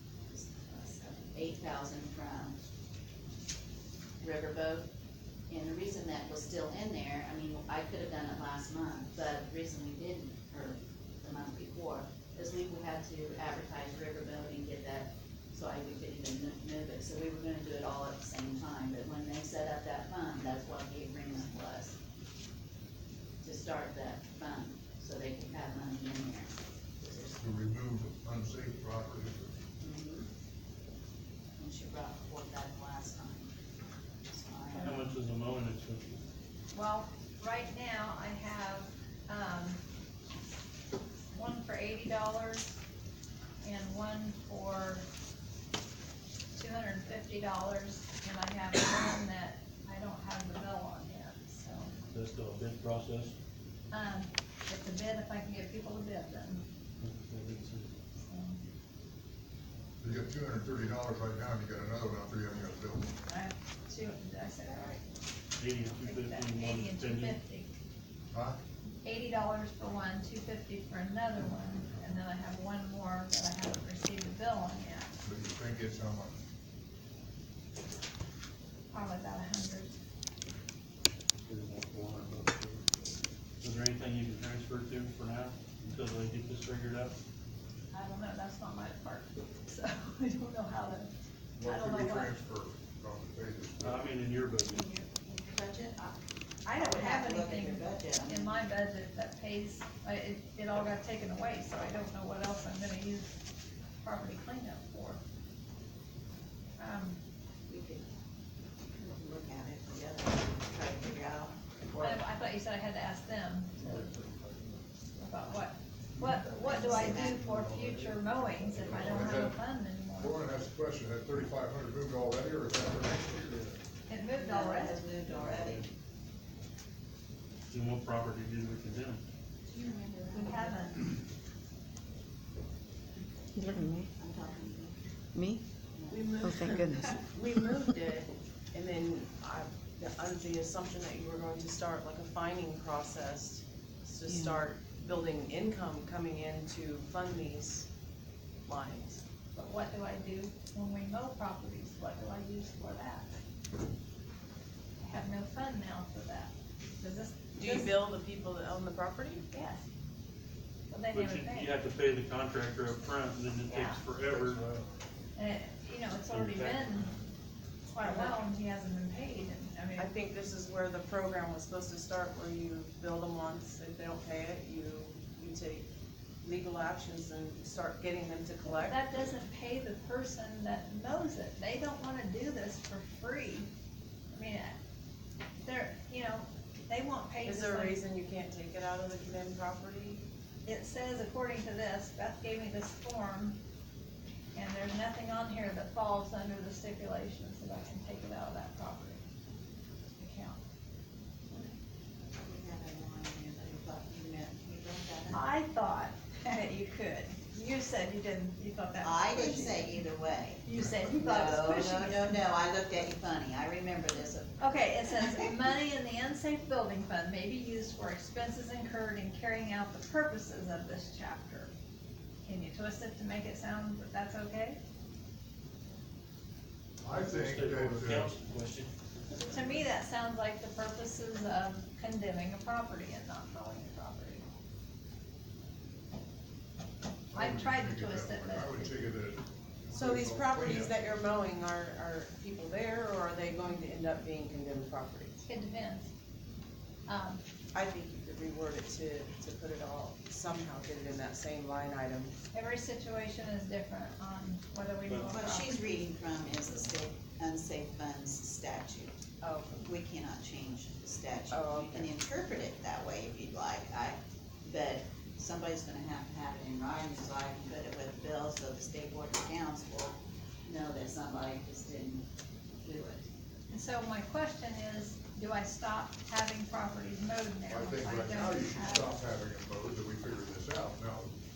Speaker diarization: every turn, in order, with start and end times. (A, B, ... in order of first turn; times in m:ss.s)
0:00.3-0:02.6 A
0:04.2-0:04.9 A
0:05.5-0:22.0 A
0:23.4-0:27.4 A
0:27.4-0:29.6 B
0:29.8-0:30.3 A
0:31.6-0:33.5 A
0:34.3-0:35.1 A
0:34.7-0:36.2 C
0:36.7-0:39.8 D
0:41.3-0:42.8 D
0:43.6-0:45.0 D
0:46.5-0:52.0 D
0:52.1-0:53.3 C
0:53.9-0:56.6 D
0:57.0-0:57.9 C
0:58.2-0:58.6 D
1:00.0-1:03.1 B
1:03.2-1:05.0 D
1:05.6-1:07.4 C
1:06.0-1:07.7 D
1:08.3-1:08.6 B
1:09.0-1:15.1 D
1:15.2-1:16.4 B
1:18.9-1:19.9 D
1:21.4-1:23.1 C
1:23.6-1:27.1 C
1:27.9-1:31.1 D
1:31.6-1:34.0 B
1:31.6-1:32.4 D
1:33.8-1:34.9 C
1:34.7-1:36.2 A
1:36.6-1:43.3 D
1:36.7-1:38.6 A
1:44.0-1:45.2 D
1:46.8-1:47.2 D
1:47.7-1:48.1 A
1:49.0-1:51.6 A
1:52.0-1:54.0 D
1:55.2-2:00.4 D
1:56.2-1:59.6 B
1:56.6-1:57.4 A
2:00.2-2:03.6 B
2:04.1-2:05.0 D
2:04.3-2:05.9 A
2:07.7-2:09.2 C
2:09.7-2:11.0 A
2:10.3-2:11.0 D
2:13.6-2:14.1 E
2:13.7-2:15.0 A
2:15.3-2:15.6 E
2:16.0-2:17.2 A
2:16.1-2:27.9 F
2:16.4-2:17.2 E
2:24.3-2:24.6 E
2:28.6-2:29.2 F
2:29.5-2:33.3 D
2:35.0-2:37.9 D
2:37.5-2:39.4 F
2:39.5-2:39.8 D
2:40.9-2:41.7 D
2:41.1-2:44.6 C
2:43.7-2:44.0 D
2:44.4-2:44.8 B
2:45.4-2:47.1 D
2:46.3-2:47.1 C
2:47.9-2:48.4 F
2:48.0-2:50.1 D
2:50.0-2:55.8 F
2:56.4-2:59.0 F
2:58.6-3:03.7 D
3:04.3-3:04.8 D
3:05.6-3:08.0 D
3:07.4-3:10.2 F
3:10.6-3:13.6 D
3:14.5-3:19.2 D
3:20.2-3:20.6 D
3:22.4-3:25.4 A
3:25.3-3:30.0 D
3:29.0-3:35.5 A
3:30.6-3:32.4 D
3:34.6-3:41.7 D
3:42.4-3:44.8 D
3:47.0-3:48.3 B
3:47.1-3:49.8 C
3:49.5-3:54.5 D
3:57.3-4:00.9 B
3:57.3-3:59.1 D
3:59.9-4:05.4 F
4:05.4-4:06.1 D
4:07.1-4:07.4 D
4:07.7-4:12.3 F
4:12.5-4:15.8 D
4:15.1-4:15.4 C
4:15.3-4:19.2 A
4:19.4-4:19.8 F
4:19.8-4:32.2 A
4:21.5-4:22.1 F
4:32.8-4:33.3 A
4:33.7-4:39.2 D
4:37.7-4:41.3 B